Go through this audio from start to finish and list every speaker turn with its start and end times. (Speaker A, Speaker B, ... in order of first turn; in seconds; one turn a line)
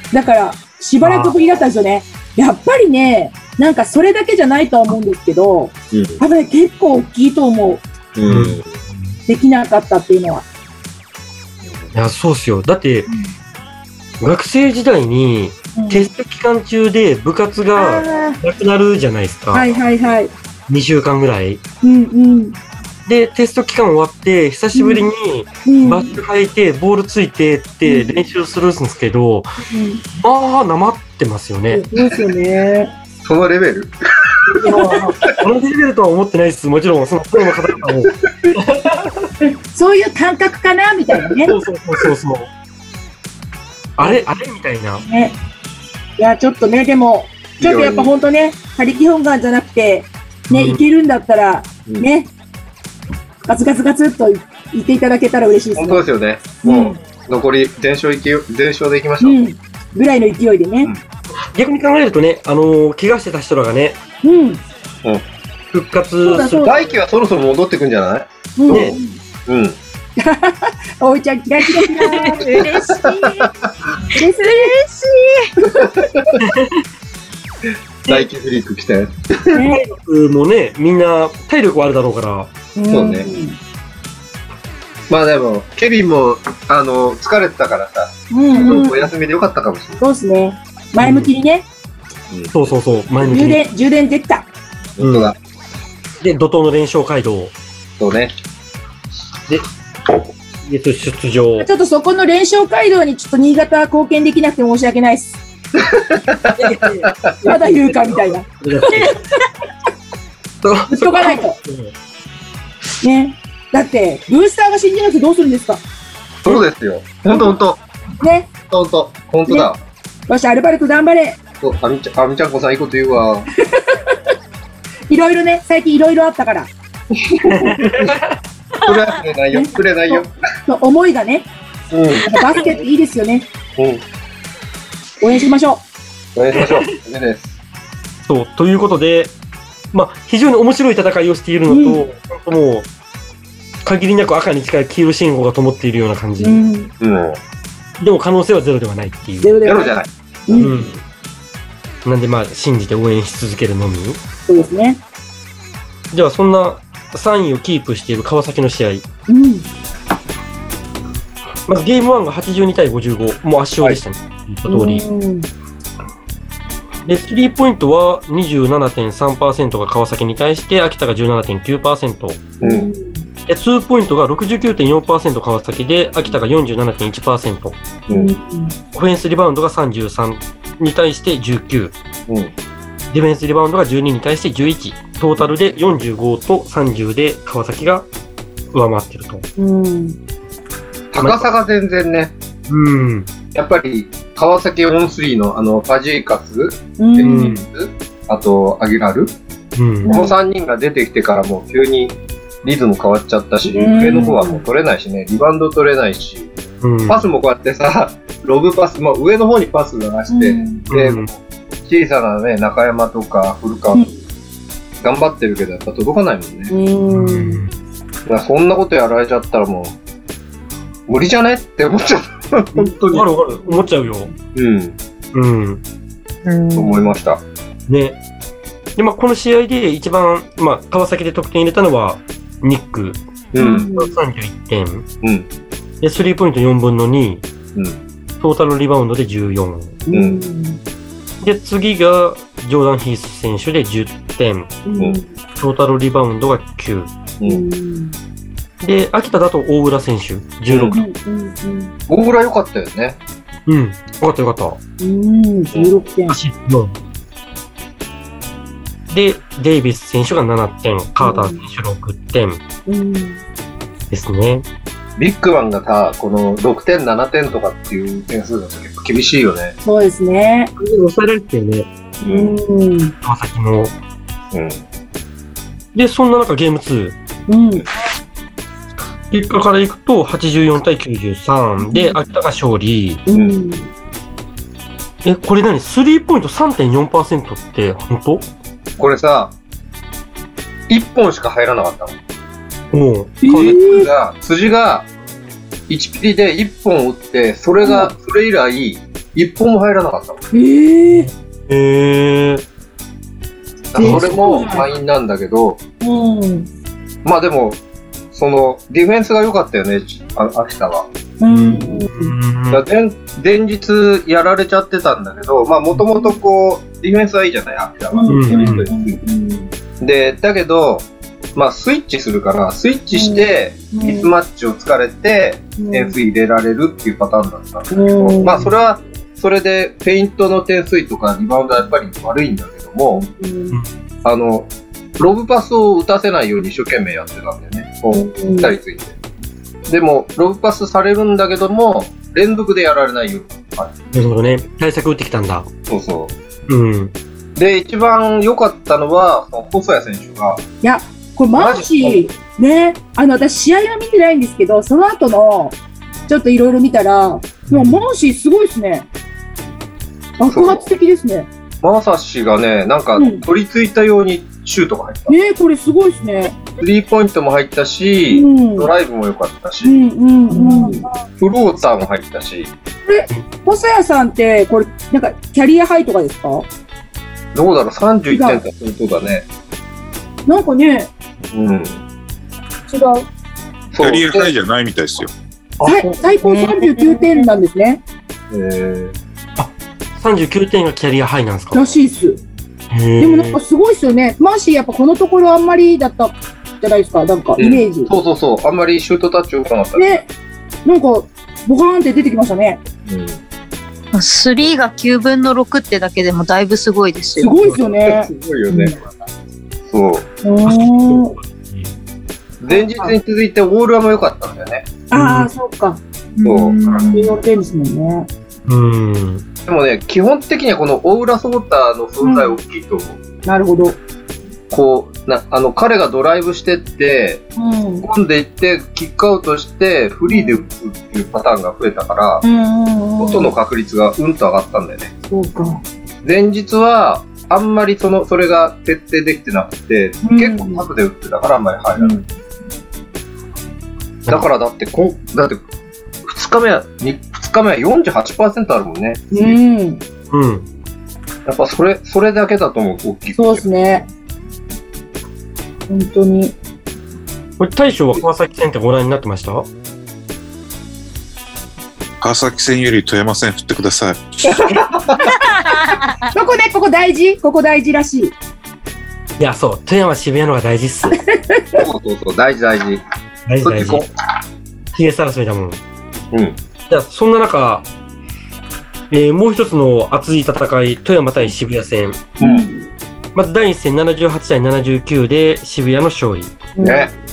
Speaker A: 0.1-7.8
Speaker B: 1.0-1.3
Speaker C: 5.9-6.2
Speaker C: 8.1-8.7
Speaker B: 8.2-9.2
Speaker A: 9.3-10.4
Speaker C: 11.6-11.9
Speaker B: 11.9-13.1
Speaker B: 14.2-19.7
Speaker A: 15.7-16.1
Speaker A: 17.8-18.4
Speaker A: 19.5-20.3
Speaker B: 20.7-21.6
Speaker A: 21.8-22.6
Speaker B: 23.1-29.5
Speaker A: 24.7-25.1
Speaker A: 25.6-26.2
Speaker A: 27.8-28.1
Speaker A: 29.7-30.0
Speaker B: 30.2-31.8
Speaker A: 31.7-32.9
Speaker C: 33.2-33.9
Speaker A: 34.6-35.1
Speaker B: 34.6-39.1
Speaker C: 38.3-38.5
Speaker A: 39.7-41.5
Speaker B: 41.5-42.5
Speaker B: 44.0-45.0
Speaker A: 45.0-45.4
Speaker A: 46.2-52.3
Speaker C: 47.6-48.1
Speaker B: 50.5-50.8
Speaker A: 53.4-56.0
Speaker C: 55.7-59.4
Speaker A: 56.6-57.0
Speaker A: 59.2-60.9
Speaker B: 61.5-64.0
Speaker A: 64.2-64.6
Speaker B: 65.7-66.7
Speaker A: 66.2-66.8
Speaker C: 66.4-69.8
Speaker A: 68.6-69.2
Speaker B: 68.7-69.0
Speaker A: 70.2-72.7
Speaker D: 71.8-73.5
Speaker C: 72.6-73.5
Speaker A: 74.1-74.8
Speaker D: 74.2-75.5
Speaker A: 75.6-75.9
Speaker C: 75.7-76.4
Speaker B: 76.4-76.7
Speaker C: 78.0-79.6
Speaker A: 79.5-79.8
Speaker B: 79.7-82.5
Speaker A: 82.8-83.6
Speaker C: 82.9-83.3
Speaker C: 85.1-90.0
Speaker A: 88.3-89.1
Speaker A: 90.0-91.7
Speaker B: 91.0-91.3
Speaker C: 92.3-92.5
Speaker B: 92.5-93.6
Speaker A: 93.2-94.5
Speaker C: 95.0-95.3
Speaker B: 95.0-95.3
Speaker B: 96.2-97.5
Speaker C: 98.0-98.3
Speaker B: 100.6-101.7
Speaker A: 101.6-105.4
Speaker C: 105.8-107.3
Speaker B: 106.6-109.2
Speaker A: 107.4-109.2
Speaker B: 110.6-111.9
Speaker A: 110.9-111.6
Speaker A: 113.0-115.8
Speaker C: 116.4-117.8
Speaker A: 118.2-118.5
Speaker C: 118.7-119.8
Speaker A: 120.3-121.4
Speaker C: 121.6-123.5
Speaker A: 123.6-124.2
Speaker A: 125.1-126.7
Speaker A: 127.5-127.8
Speaker B: 127.5-128.3
Speaker C: 128.8-130.3
Speaker A: 129.5-131.5
Speaker C: 131.9-132.3
Speaker A: 132.2-133.5
Speaker C: 133.8-134.0
Speaker A: 135.2-135.8
Speaker C: 136.3-137.5
Speaker B: 136.5-136.8
Speaker B: 138.2-139.3
Speaker B: 139.9-142.9
Speaker A: 141.7-142.0
Speaker B: 143.8-146.6
Speaker A: 146.4-146.9
Speaker C: 147.0-147.4
Speaker B: 148.0-149.5
Speaker A: 149.4-149.9
Speaker C: 149.6-150.1
Speaker A: 150.5-150.8
Speaker B: 150.5-151.0
Speaker B: 152.0-154.2
Speaker A: 154.5-155.0
Speaker B: 156.1-159.0
Speaker A: 159.3-159.7
Speaker B: 161.7-165.0
Speaker A: 164.7-165.5
Speaker B: 167.0-172.5
Speaker C: 172.6-172.9
Speaker A: 172.6-173.3
Speaker B: 173.5-177.8
Speaker A: 178.1-178.8
Speaker B: 178.9-181.9
Speaker C: 182.3-182.5
Speaker B: 183.1-188.1
Speaker B: 188.7-189.4
Speaker A: 189.6-190.2
Speaker C: 191.1-192.3
Speaker B: 191.2-191.5
Speaker B: 192.7-193.3
Speaker C: 193.5-199.3
Speaker A: 197.0-197.5
Speaker B: 197.2-197.7
Speaker B: 199.8-200.1
Speaker A: 200.0-200.4
Speaker C: 200.0-206.5
Speaker A: 203.6-204.6
Speaker B: 206.8-207.2
Speaker C: 207.1-214.1
Speaker A: 210.3-210.8
Speaker B: 210.9-211.3
Speaker C: 215.0-216.7
Speaker A: 216.7-217.6
Speaker B: 217.1-217.7
Speaker C: 218.2-220.0
Speaker C: 221.1-223.3
Speaker B: 223.1-224.3
Speaker C: 224.5-225.0
Speaker B: 225.3-225.8
Speaker A: 226.4-227.0
Speaker C: 226.7-227.4
Speaker B: 227.9-228.2
Speaker B: 229.0-233.2
Speaker C: 233.5-233.9
Speaker A: 233.6-234.1
Speaker B: 233.8-235.1
Speaker C: 235.2-235.5
Speaker B: 236.0-237.4
Speaker C: 237.7-238.0
Speaker B: 238.4-240.0
Speaker A: 240.1-240.8
Speaker C: 240.1-240.4
Speaker B: 241.4-244.8
Speaker A: 244.8-245.3
Speaker B: 245.6-247.1
Speaker C: 247.4-247.6
Speaker A: 247.4-248.2
Speaker B: 248.8-251.0
Speaker C: 250.7-251.0
Speaker A: 250.9-251.9
Speaker C: 252.1-253.2
Speaker B: 253.7-254.8
Speaker A: 255.0-256.4
Speaker C: 255.7-256.0
Speaker B: 256.3-256.9
Speaker B: 259.1-262.6
Speaker A: 261.2-261.6
Speaker A: 262.9-263.4
Speaker B: 264.1-264.6
Speaker C: 265.2-269.8
Speaker A: 269.8-270.7
Speaker B: 270.8-271.9
Speaker C: 272.2-272.6
Speaker A: 272.2-273.1
Speaker B: 273.2-273.9
Speaker C: 274.5-274.8
Speaker B: 275.9-277.2
Speaker A: 277.5-277.9
Speaker B: 279.3-283.2
Speaker A: 281.8-282.1
Speaker A: 283.3-283.9
Speaker B: 285.2-288.5
Speaker C: 289.0-289.5
Speaker C: 290.9-292.2
Speaker B: 292.9-293.8
Speaker A: 293.4-294.1
Speaker C: 293.5-295.1
Speaker C: 295.9-300.4
Speaker A: 297.8-298.1
Speaker A: 300.5-301.3
Speaker B: 301.1-302.6
Speaker C: 303.9-305.8
Speaker A: 303.9-304.9
Speaker B: 304.0-304.4
Speaker A: 306.0-306.7
Speaker C: 307.2-307.8
Speaker C: 308.3-311.1
Speaker A: 311.4-312.3
Speaker B: 311.5-312.8
Speaker C: 312.7-319.2
Speaker A: 318.1-319.7
Speaker B: 318.3-318.9
Speaker C: 320.0-333.2
Speaker A: 323.1-324.3
Speaker A: 325.8-326.2
Speaker A: 327.9-328.6
Speaker A: 333.1-333.8
Speaker C: 334.2-339.1
Speaker A: 338.1-338.7
Speaker C: 339.9-343.9
Speaker B: 344.1-345.7
Speaker C: 345.9-346.3
Speaker B: 346.7-347.1
Speaker C: 347.6-350.6
Speaker A: 350.8-359.1
Speaker C: 351.5-352.2
Speaker B: 357.7-358.0
Speaker A: 360.4-361.5
Speaker C: 360.5-360.9
Speaker C: 361.8-365.4
Speaker A: 363.1-363.4
Speaker A: 365.3-366.6
Speaker C: 366.8-369.9
Speaker A: 368.3-368.9
Speaker A: 369.8-371.1
Speaker C: 371.4-372.7
Speaker A: 373.1-376.7
Speaker C: 377.5-379.5
Speaker A: 378.3-378.6
Speaker A: 380.4-381.1
Speaker C: 381.5-382.0
Speaker A: 382.9-383.3
Speaker C: 383.9-384.5
Speaker E: 384.0-385.3
Speaker A: 385.8-388.0
Speaker D: 386.5-387.4
Speaker C: 388.5-389.1
Speaker B: 389.6-391.9
Speaker A: 391.7-392.4
Speaker B: 392.9-393.6
Speaker A: 393.2-398.1
Speaker C: 397.6-400.2
Speaker A: 399.9-400.3
Speaker A: 400.8-402.8
Speaker C: 403.1-403.4
Speaker D: 404.1-407.6
Speaker A: 407.4-408.9
Speaker C: 407.7-409.1
Speaker C: 409.9-410.3
Speaker A: 410.4-411.3
Speaker B: 410.6-411.9
Speaker C: 412.6-414.9
Speaker A: 412.7-413.2
Speaker A: 415.1-416.0
Speaker B: 415.1-415.5
Speaker D: 416.4-417.4
Speaker C: 416.4-417.2
Speaker A: 417.1-418.3
Speaker B: 418.7-419.4
Speaker C: 419.6-423.2
Speaker A: 422.2-422.6
Speaker A: 423.4-424.0
Speaker C: 424.7-427.4
Speaker A: 427.6-428.1
Speaker C: 428.0-432.4
Speaker A: 430.3-430.6
Speaker A: 432.4-433.5
Speaker C: 433.2-435.1
Speaker A: 435.3-435.8
Speaker C: 436.2-442.2
Speaker A: 440.2-440.9
Speaker A: 442.0-442.2
Speaker C: 444.3-445.6
Speaker C: 446.2-449.6
Speaker A: 449.3-450.0
Speaker B: 450.3-450.7
Speaker C: 451.4-453.6
Speaker A: 453.4-454.1
Speaker A: 455.9-456.5
Speaker B: 457.6-459.7
Speaker E: 462.2-464.2
Speaker A: 464.5-468.3
Speaker C: 464.7-465.3
Speaker D: 465.4-466.3
Speaker B: 469.4-471.2
Speaker A: 471.3-471.8
Speaker C: 471.8-473.0
Speaker B: 473.5-474.0
Speaker C: 473.6-474.1
Speaker B: 474.9-475.8
Speaker C: 476.3-476.6
Speaker B: 476.9-477.9
Speaker B: 479.1-482.3
Speaker C: 482.4-482.7
Speaker A: 482.4-482.9
Speaker B: 483.3-486.6
Speaker A: 486.8-487.1
Speaker C: 486.8-487.1